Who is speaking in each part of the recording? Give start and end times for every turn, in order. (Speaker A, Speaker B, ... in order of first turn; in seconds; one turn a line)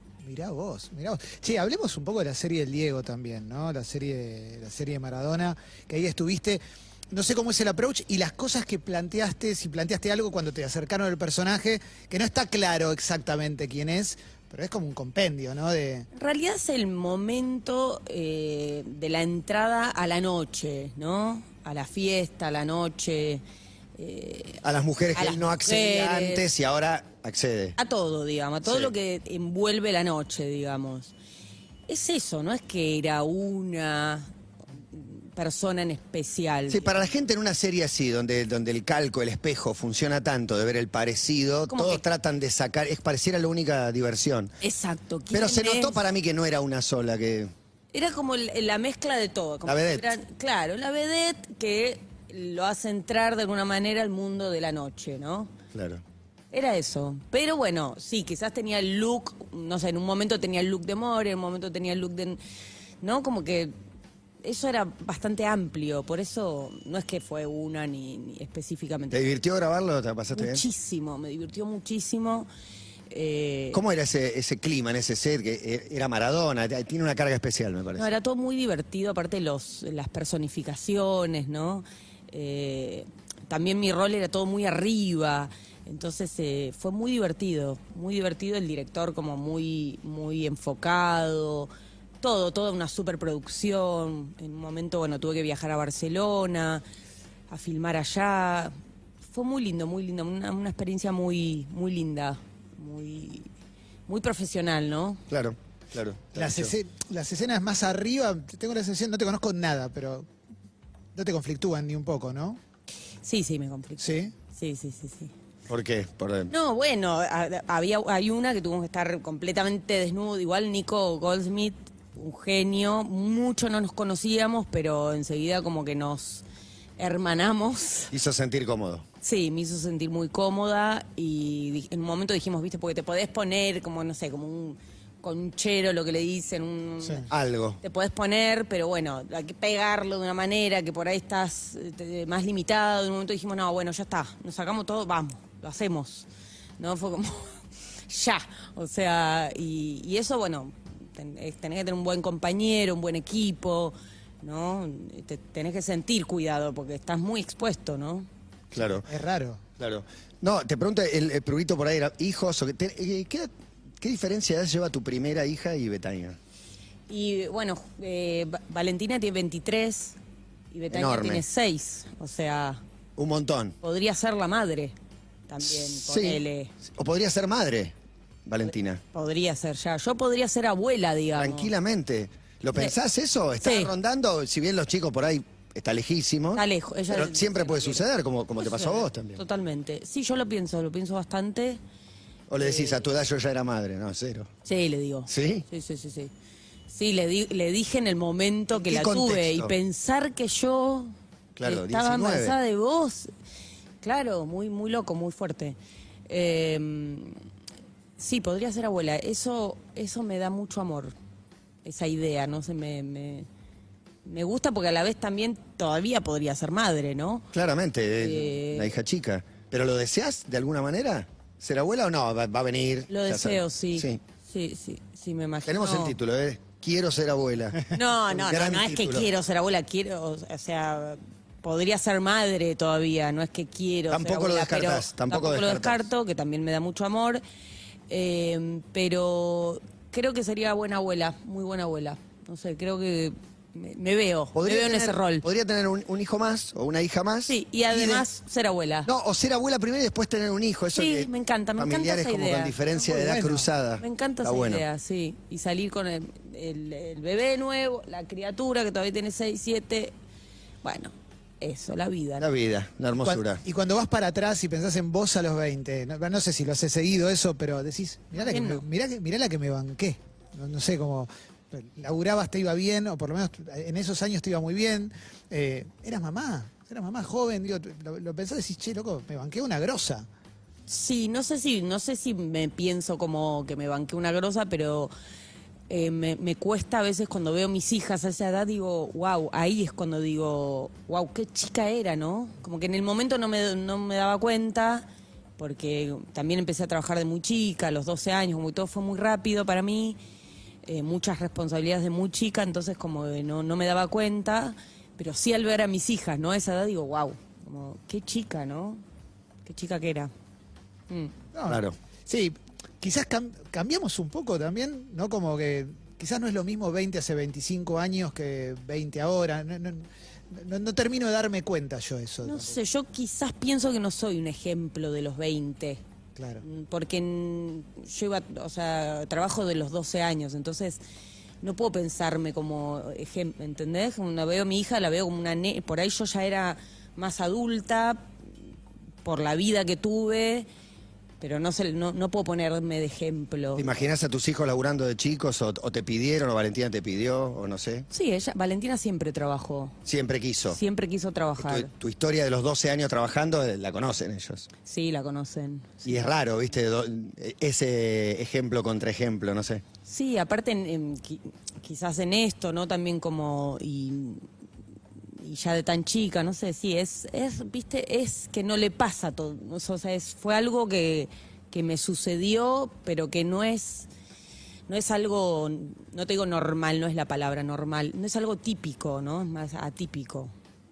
Speaker A: 0.2-6.6
Speaker A: 7.1-16.1
Speaker B: 16.1-23.4
Speaker B: 24.0-24.6
Speaker C: 24.6-27.8
Speaker B: 25.1-26.5
Speaker B: 27.8-31.1
Speaker C: 28.6-28.9
Speaker B: 31.9-34.3
Speaker B: 34.9-37.0
Speaker C: 36.7-44.5
Speaker B: 41.7-42.0
Speaker B: 44.6-46.0
Speaker C: 45.3-47.5
Speaker B: 47.9-55.5
Speaker C: 49.6-50.1
Speaker C: 55.7-56.0
Speaker B: 56.5-62.4
Speaker B: 63.0-63.7
Speaker B: 64.4-69.4
Speaker C: 69.1-70.6
Speaker B: 70.3-72.5
Speaker B: 73.1-73.8
Speaker C: 73.7-78.1
Speaker B: 78.0-91.7
Speaker B: 92.2-96.8
Speaker B: 97.5-98.7
Speaker B: 99.2-103.5
Speaker B: 104.1-105.2
Speaker C: 105.3-106.7
Speaker A: 106.3-110.3
Speaker A: 111.2-112.6
Speaker B: 113.2-115.3
Speaker A: 114.0-114.3
Speaker C: 115.7-116.5
Speaker B: 116.5-126.4
Speaker B: 127.0-128.1
Speaker C: 128.1-129.1
Speaker B: 129.2-137.3
Speaker C: 137.3-137.8
Speaker B: 137.8-146.3
Speaker B: 146.8-158.3
Speaker C: 158.7-159.1
Speaker A: 159.1-159.6
Speaker C: 159.8-166.4
Speaker B: 167.1-170.2
Speaker B: 170.7-172.8
Speaker C: 170.9-171.4
Speaker C: 173.2-173.8
Speaker B: 173.8-174.9
Speaker B: 175.5-176.7
Speaker C: 175.7-177.9
Speaker C: 178.5-179.0
Speaker B: 179.1-181.7
Speaker C: 181.3-189.4
Speaker B: 183.6-183.9
Speaker B: 186.5-188.0
Speaker B: 188.6-191.8
Speaker C: 192.5-194.5
Speaker B: 192.6-193.1
Speaker B: 194.7-196.3
Speaker C: 195.3-195.7
Speaker B: 196.9-203.3
Speaker C: 198.8-199.7
Speaker C: 201.6-202.6
Speaker B: 204.0-205.8
Speaker B: 206.3-207.4
Speaker B: 208.2-211.1
Speaker B: 211.8-213.5
Speaker B: 214.2-217.5
Speaker C: 217.5-224.2
Speaker B: 218.2-219.0
Speaker B: 223.1-226.2
Speaker C: 225.7-229.3
Speaker B: 227.9-237.4
Speaker C: 234.1-236.1
Speaker B: 238.1-245.4
Speaker C: 244.5-248.3
Speaker B: 247.5-249.1
Speaker C: 249.1-254.8
Speaker B: 250.9-252.8
Speaker A: 253.0-253.7
Speaker B: 254.0-260.1
Speaker B: 260.8-262.5
Speaker C: 262.4-263.6
Speaker A: 263.2-280.3
Speaker B: 268.3-268.9
Speaker B: 280.9-285.1
Speaker B: 285.9-295.1
Speaker B: 295.6-300.2
Speaker B: 300.9-309.0
Speaker B: 309.6-310.3
Speaker A: 311.5-322.8
Speaker C: 311.7-312.0
Speaker B: 322.4-326.0
Speaker A: 326.4-326.6
Speaker B: 326.6-331.0
Speaker B: 331.6-338.3
Speaker B: 339.2-340.7
Speaker B: 341.4-343.9
Speaker C: 343.8-348.1
Speaker B: 348.1-350.0
Speaker C: 350.1-350.8
Speaker B: 350.7-351.9
Speaker C: 351.6-354.7
Speaker B: 354.9-356.3
Speaker C: 356.1-359.8
Speaker B: 360.1-364.4
Speaker B: 365.4-374.1
Speaker B: 374.9-380.5